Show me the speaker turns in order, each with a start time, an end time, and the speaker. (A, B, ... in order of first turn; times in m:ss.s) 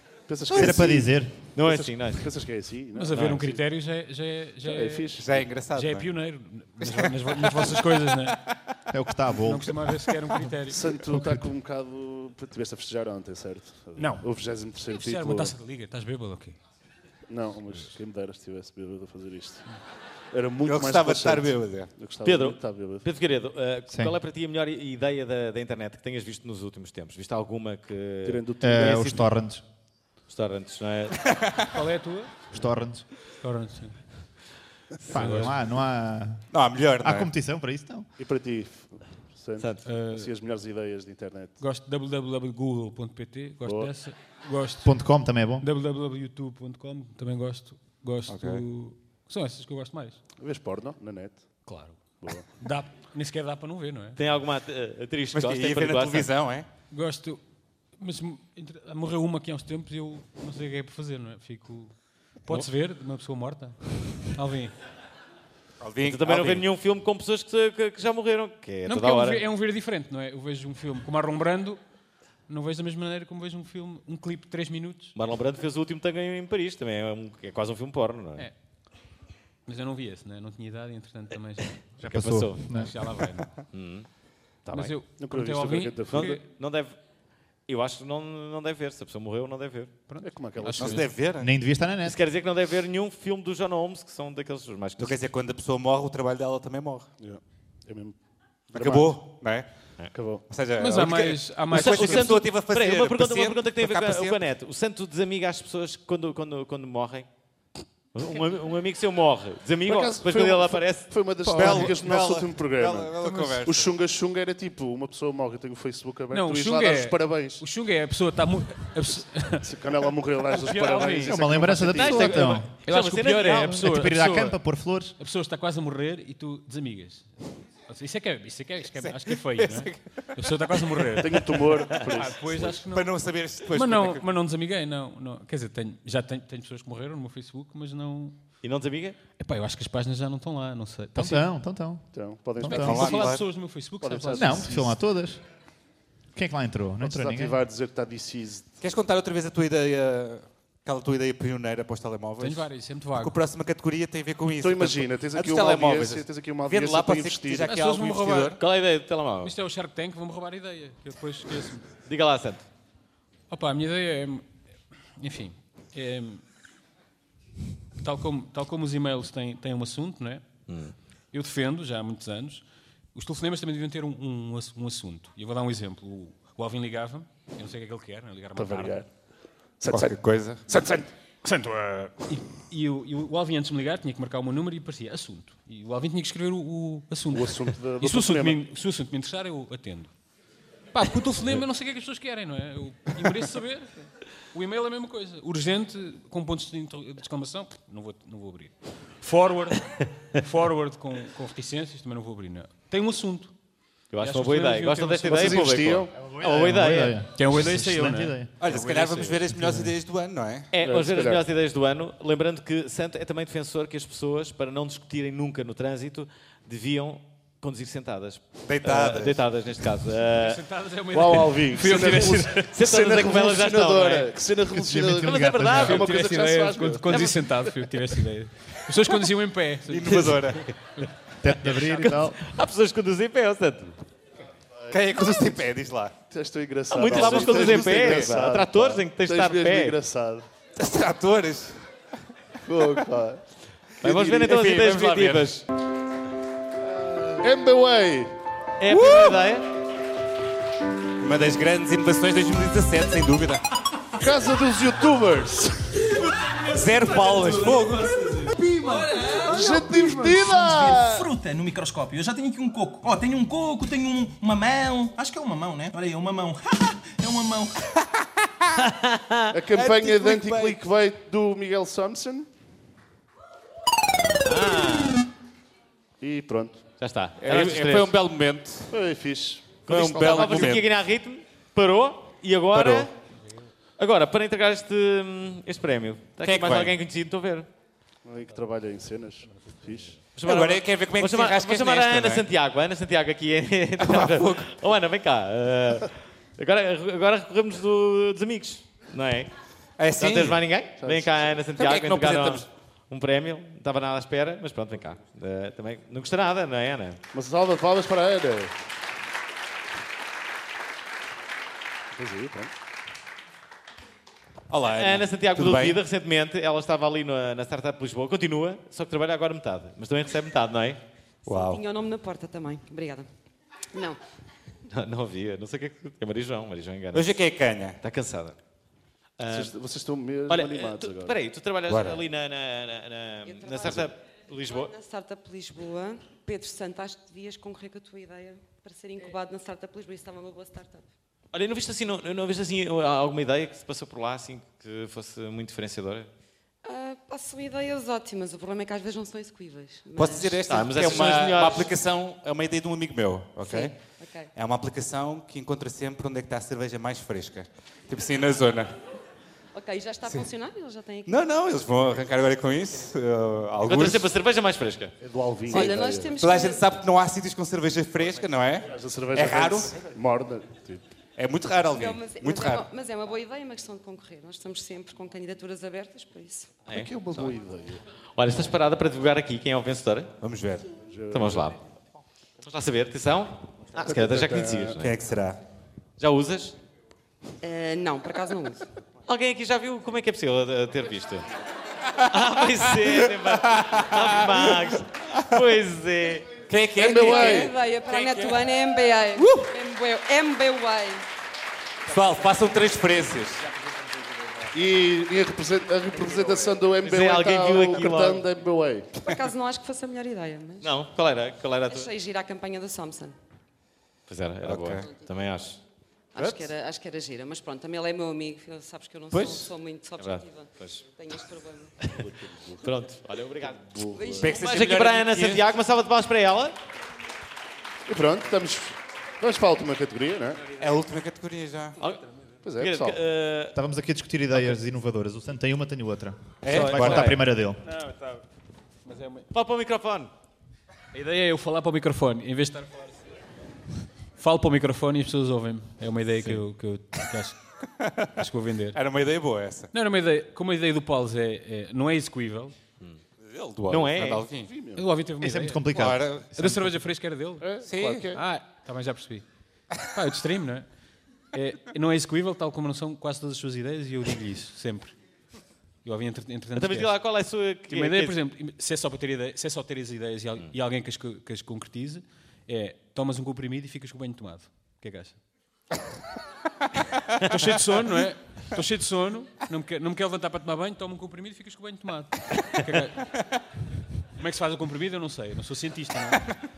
0:00.3-0:03.6 A
0:00.6-0:01.3 B
0:00.6-0:00.8 C
0:01.6-0:02.3 D
0:03.0-0:05.2 E
0:03.1-0:03.4 D
0:04.6-0:05.3 A
0:05.2-0:06.1 C
0:05.7-0:08.4 E
0:06.8-0:07.1 C
0:08.9-0:09.8 B
0:09.4-0:11.4 E
0:10.7-0:15.6 A
0:14.0-0:14.2 E
0:14.9-0:16.6 E
0:17.3-0:19.7 A
0:20.3-0:23.0 A
0:20.7-0:21.9 C
0:22.2-0:29.2 D
0:23.9-0:24.2 B
0:28.2-0:29.3 A
0:28.6-0:29.6 B
0:30.3-0:31.2 D
0:31.7-0:32.3 E
0:32.5-0:33.0 B
0:33.4-0:34.0 E
0:35.1-0:36.4 B
0:35.1-0:35.6 E
0:36.5-0:37.3 C
0:37.0-0:38.1 B
0:38.2-0:41.6 A
0:39.8-0:40.3 E
0:41.6-0:45.0 E
0:43.6-0:43.9 A
0:44.8-0:45.6 B
0:45.6-0:50.2 E
0:48.3-0:48.6 C
0:50.4-0:51.5 A
0:51.7-0:54.2 E
0:54.2-0:56.3 D
0:55.3-0:56.7 C
0:56.9-0:57.4 E
0:58.0-1:03.8 E
1:04.4-1:04.7 E
1:05.8-1:06.6 C
1:06.0-1:09.4 D
1:08.9-1:11.8 E
1:12.5-1:15.1 E
1:15.2-1:18.5 D
1:19.7-1:21.7 E
1:22.0-1:22.9 B
1:22.0-1:22.9 D
1:22.7-1:23.5 E
1:23.7-1:24.1 D
1:24.7-1:24.9 D
1:24.7-1:26.4 E
1:25.2-1:26.4 A
1:26.1-1:27.0 D
1:27.7-1:29.9 D
1:30.1-1:31.1 E
1:30.2-1:31.1 A
1:30.8-1:31.5 C
1:31.4-1:32.2 B
1:32.0-1:35.2 D
1:35.0-1:37.1 C
1:37.2-1:38.2 A
1:38.7-1:39.7 C
1:38.7-1:39.2 A
1:40.1-1:40.4 A
1:40.5-1:44.4 C
1:40.8-1:42.4 E
1:41.7-1:47.3 D
1:48.1-1:51.9 D
1:49.9-1:57.6 A
1:51.5-1:53.9 C
1:53.2-1:53.6 E
1:56.3-1:59.7 E
1:59.6-2:02.3 A
2:00.5-2:04.7 E
2:01.3-2:02.7 B
2:01.9-2:04.0 D
2:03.7-2:05.2 B
2:05.2-2:13.1 E
2:09.0-2:10.0 C
2:11.2-2:12.8 A
2:12.9-2:14.2 C
2:13.7-2:18.4 E
2:18.6-2:19.2 D
2:19.4-2:21.7 E
2:21.2-2:22.1 B
2:22.1-2:23.4 A
2:22.6-2:24.9 E
2:22.7-2:23.4 C
2:24.0-2:24.9 A
2:24.4-2:25.4 B
2:26.4-2:27.6 B
2:27.0-2:28.7 A
2:28.8-2:38.6 C
2:32.4-2:33.4 E
2:34.6-2:37.7 A
2:37.7-2:38.6 E
2:38.6-2:39.5 D
2:39.4-2:41.9 E
2:42.1-2:42.7 D
2:43.5-2:44.5 E
2:45.2-2:46.4 E
2:48.0-2:50.4 E
2:50.7-2:50.9 D
2:51.3-2:59.0 E
2:58.6-2:59.1 A
2:59.8-3:00.2 A
2:59.9-3:00.6 C
3:00.7-3:01.1 A
3:01.4-3:10.1 E
3:07.3-3:08.6 A
3:10.9-3:23.5 E
3:24.1-3:27.2 D
3:24.2-3:25.7 E
3:25.3-3:26.1 A
3:26.2-3:28.5 B
3:27.3-3:28.5 E
3:28.6-3:30.7 C
3:30.7-3:40.6 D
3:30.8-3:31.4 A
3:38.7-3:39.4 C
3:40.3-3:42.5 E
3:41.1-3:47.6 A
3:41.8-3:44.3 D
3:44.8-3:45.8 B
3:45.0-3:46.0 D
3:45.7-3:51.1 E
3:49.9-3:50.6 C
3:51.4-3:52.4 B
3:52.0-3:54.0 D
3:54.9-3:56.2 C
3:56.3-4:00.5 A
3:56.9-4:00.0 D
3:57.0-3:58.4 C
4:00.8-4:01.8 C
4:02.7-4:03.4 A
4:04.0-4:05.6 D
4:04.0-4:04.4 A
4:04.3-4:05.5 C
4:06.9-4:08.3 A
4:08.8-4:09.6 D
4:11.2-4:13.6 C
4:14.2-4:15.8 A
4:16.7-4:18.2 C
4:18.6-4:27.8 F
4:19.4-4:21.2 A
4:28.8-4:29.5 D
4:29.5-4:32.5 A
4:29.8-4:30.8 C
4:34.2-4:35.2 D
4:36.2-4:36.8 A
4:37.0-4:38.2 D
4:37.4-4:38.9 C
4:38.9-4:40.8 A
4:39.9-4:43.1 D
4:39.9-4:40.9 C
4:44.0-4:47.7 D
4:46.4-4:47.0 C
4:48.2-4:50.2 A
4:50.4-4:59.5 D
4:50.4-4:52.4 C
4:54.0-4:54.7 C
5:00.0-5:00.6 C
5:00.2-5:07.2 D
5:01.0-5:01.5 A
5:01.8-5:02.6 C
5:07.3-5:08.7 A
5:12.1-5:12.7 A
5:14.7-5:16.0 C
5:15.0-5:21.0 D
5:21.5-5:21.8 C
5:21.5-5:23.3 G
5:23.9-5:24.2 G
5:24.9-5:27.3 D
5:27.1-5:28.0 C
5:28.0-5:28.6 D
5:29.4-5:29.7 D
5:29.5-5:31.4 A
5:30.5-5:34.9 D
5:31.9-5:32.2 C
5:33.4-5:41.1 G
5:41.5-5:46.3 D
5:46.8-5:50.6 G
5:50.1-5:54.0 C
5:50.7-5:51.9 D
5:53.6-5:54.5 G
5:54.6-5:58.9 C
5:59.7-6:01.4 G
6:01.3-6:04.3 C
6:03.8-6:05.1 D
6:05.2-6:06.4 A
6:05.7-6:06.8 G
6:05.7-6:09.9 C
6:08.9-6:11.1 A
6:11.4-6:12.9 C
6:11.9-6:16.8 G
6:16.9-6:17.5 D
6:16.9-6:18.0 A
6:18.4-6:20.3 D
6:20.4-6:20.9 C
6:21.1-6:21.6 A
6:21.3-6:21.8 D
6:22.6-6:25.1 D
6:24.0-6:25.0 A
6:25.0-6:25.6 C
6:26.2-6:26.8 D
6:27.6-6:28.9 G
6:29.3-6:31.5 D
6:32.3-6:36.6 D
6:36.7-6:38.6 C
6:37.0-6:37.7 A
6:37.2-6:41.2 G
6:42.1-6:43.6 C
6:44.7-6:49.1 A
6:47.0-6:48.4 D
6:49.2-6:51.0 G
6:50.8-6:52.1 D
6:51.8-6:53.4 G
6:54.3-6:55.8 D
6:54.6-6:55.1 C
6:56.3-7:02.0 G
6:56.4-6:56.7 D
6:59.3-6:59.7 C
7:00.2-7:01.0 D
7:02.2-7:02.9 A
7:02.8-7:03.8 D
7:03.6-7:04.6 A
7:04.1-7:04.4 G
7:04.4-7:05.6 C
7:04.4-7:06.7 D
7:08.1-7:10.6 A
7:10.8-7:12.0 C
7:12.6-7:13.2 A
7:12.8-7:13.8 D
7:13.8-7:17.8 B
7:16.6-7:17.4 C
7:16.7-7:17.4 D
7:16.8-7:18.4 E
7:19.0-7:19.5 E
7:19.5-7:20.3 D
7:21.1-7:23.2 E
7:24.4-7:27.6 E
7:28.4-7:29.0 E
7:28.9-7:29.9 C
7:29.9-7:32.8 E
7:33.4-7:34.7 C
7:33.9-7:34.4 D
7:34.6-7:35.1 A
7:35.0-7:37.7 E
7:35.4-7:36.9 B
7:35.9-7:36.6 C
7:37.6-7:38.4 A
7:37.8-7:38.3 C
7:38.3-7:39.4 E
7:40.1-7:40.9 E
7:41.5-7:45.2 E
7:46.0-7:47.2 E
7:46.7-7:48.4 D
7:47.9-7:55.4 E
7:57.5-8:03.2 E
8:04.4-8:06.4 E